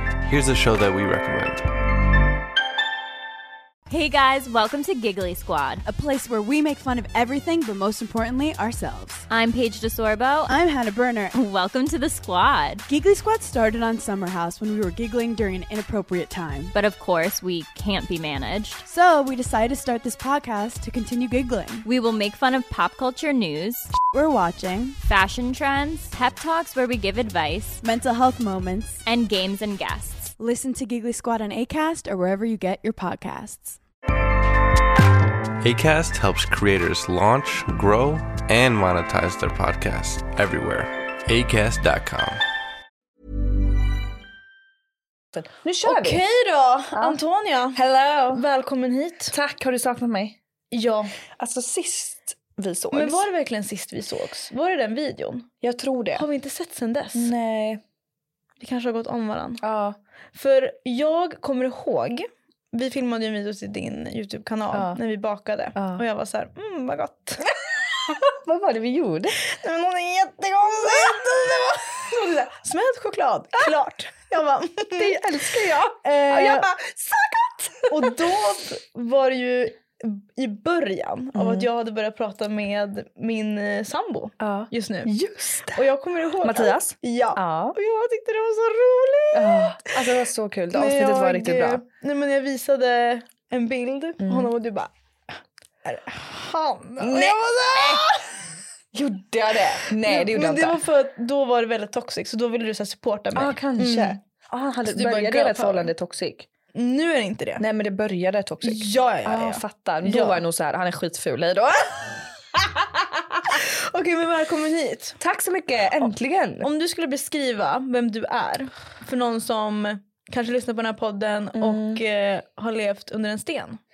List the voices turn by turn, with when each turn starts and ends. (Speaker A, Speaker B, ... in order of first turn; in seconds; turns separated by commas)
Speaker A: 0.2-1.6, Speaker B: 3.9-5.8, Speaker C: 5.9-9.3, Speaker B: 9.3-10.6, Speaker C: 10.5-11.3, Speaker B: 11.3-12.8, Speaker C: 12.9-16.7, Speaker B: 16.7-18.8, Speaker C: 18.9-21.9, Speaker B: 21.9-24.0, Speaker C: 24.0-25.0, Speaker B: 25.1-27.8, Speaker C: 27.8-29.0, Speaker B: 29.1-30.4, Speaker C: 30.4-33.8, Speaker A: 35.6-42.4, Speaker D: 45.3-46.2, Speaker E: 45.9-47.8, Speaker D: 46.9-47.2, Speaker D: 47.7-48.4, Speaker E: 48.3-49.3, Speaker D: 49.3-50.4, Speaker E: 50.7-51.1, Speaker D: 51.4-53.3, Speaker E: 52.9-55.5, Speaker D: 55.6-56.2, Speaker E: 56.1-57.3, Speaker D: 57.1-57.8, Speaker E: 58.6-59.6, Speaker D: 59.6-60.0, Speaker E: 60.3-67.5, Speaker D: 64.7-65.0, Speaker D: 65.8-66.0, Speaker D: 68.0-69.3, Speaker E: 69.4-75.2, Speaker D: 70.8-71.3, Speaker D: 72.1-72.5, Speaker D: 75.0-78.2, Speaker E: 76.0-76.7, Speaker E: 77.9-85.1, Speaker D: 81.3-81.7, Speaker D: 84.4-85.8, Speaker E: 85.7-90.0, Speaker D: 86.4-87.8, Speaker D: 89.3-91.8, Speaker E: 90.7-98.2, Speaker D: 94.2-94.5, Speaker D: 97.0-98.2, Speaker D: 98.9-100.8, Speaker E: 100.0-104.2, Speaker D: 103.3-106.5, Speaker E: 104.8-105.9, Speaker E: 106.8-107.6, Speaker D: 107.6-113.5, Speaker E: 108.6-110.4, Speaker E: 113.5-115.2, Speaker D: 115.2-116.7, Speaker E: 116.6-123.8, Speaker D: 121.5-122.0